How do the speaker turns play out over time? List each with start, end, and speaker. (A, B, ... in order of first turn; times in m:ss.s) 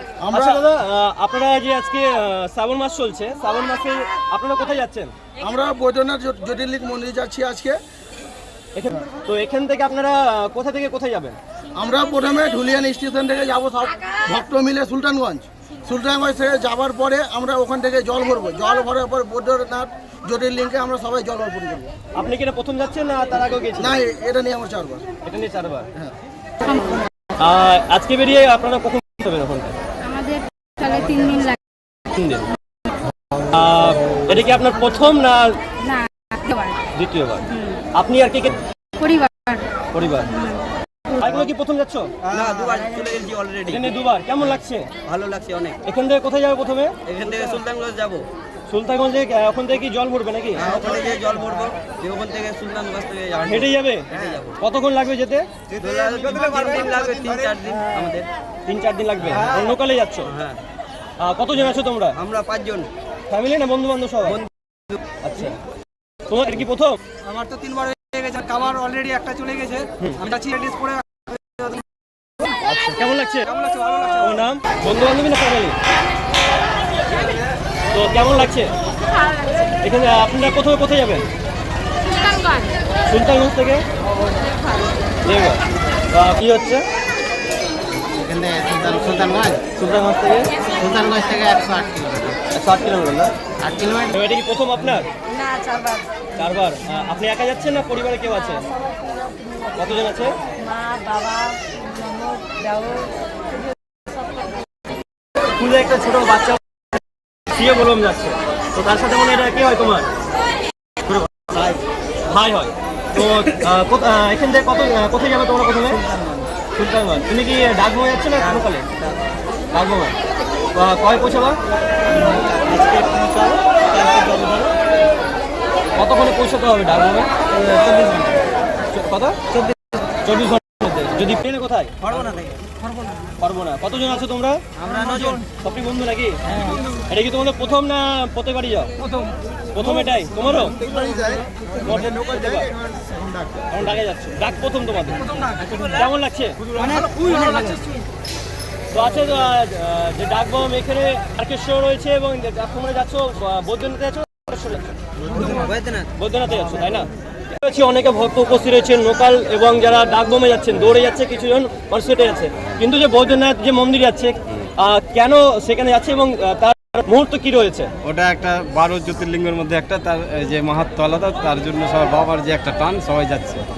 0:00.2-0:00.6 A
0:00.3-0:05.1 B
0:05.4-0:07.8 A
0:08.8-0:11.4 B
0:11.8-0:21.9 A
0:22.2-0:24.0 B
0:23.8-0:25.0 A
0:25.2-0:25.9 B
0:26.6-0:27.0 C
0:27.4-0:29.8 B
0:30.0-0:31.6 C
0:32.1-0:32.5 B
0:33.5-0:35.6 B
0:35.8-0:36.8 C
0:36.9-0:38.6 B
0:39.0-0:39.6 C
0:39.9-0:40.4 B
0:41.2-0:42.1 B
0:42.3-0:43.9 D
0:43.7-0:44.9 B
0:45.1-0:45.8 D
0:45.8-0:47.0 B
0:47.1-0:48.2 D
0:48.7-0:50.7 B
0:50.6-0:54.6 D
0:53.4-0:55.5 B
0:55.7-0:58.3 D
0:56.0-0:57.5 A
0:58.7-1:00.3 B
0:59.4-0:59.6 D
1:00.3-1:00.6 D
1:01.2-1:02.2 B
1:02.2-1:02.9 D
1:03.3-1:04.4 B
1:05.2-1:05.6 B
1:06.3-1:07.0 B
1:07.6-1:10.9 E
1:12.9-1:13.5 B
1:14.2-1:15.8 B
1:17.9-1:18.7 B
1:19.7-1:21.3 B
1:22.3-1:22.7 C
1:23.1-1:23.8 B
1:25.2-1:26.9 B
1:28.2-1:29.7 F
1:29.8-1:30.5 B
1:30.8-1:32.4 F
1:32.5-1:33.3 B
1:33.7-1:34.1 F
1:34.1-1:35.1 B
1:35.3-1:36.1 C
1:36.4-1:38.7 B
1:39.7-1:40.4 B
1:40.6-1:43.1 C
1:45.5-1:46.6 B
1:47.5-1:50.1 B
1:51.1-1:51.8 D
1:52.3-1:56.0 B
1:56.8-1:58.9 B
1:59.7-2:00.2 B
2:00.8-2:01.6 B
2:02.6-2:04.7 D
2:06.0-2:07.3 B
2:08.9-2:09.4 B
2:10.2-2:12.0 B
2:12.1-2:12.5 D
2:13.4-2:14.6 B
2:14.8-2:15.4 D
2:15.4-2:18.9 B
2:19.7-2:20.8 B
2:21.8-2:22.8 B
2:23.7-2:26.6 B
2:28.9-2:34.9 B
2:35.4-2:36.1 D
2:36.2-2:47.9 B
2:48.0-2:53.6 G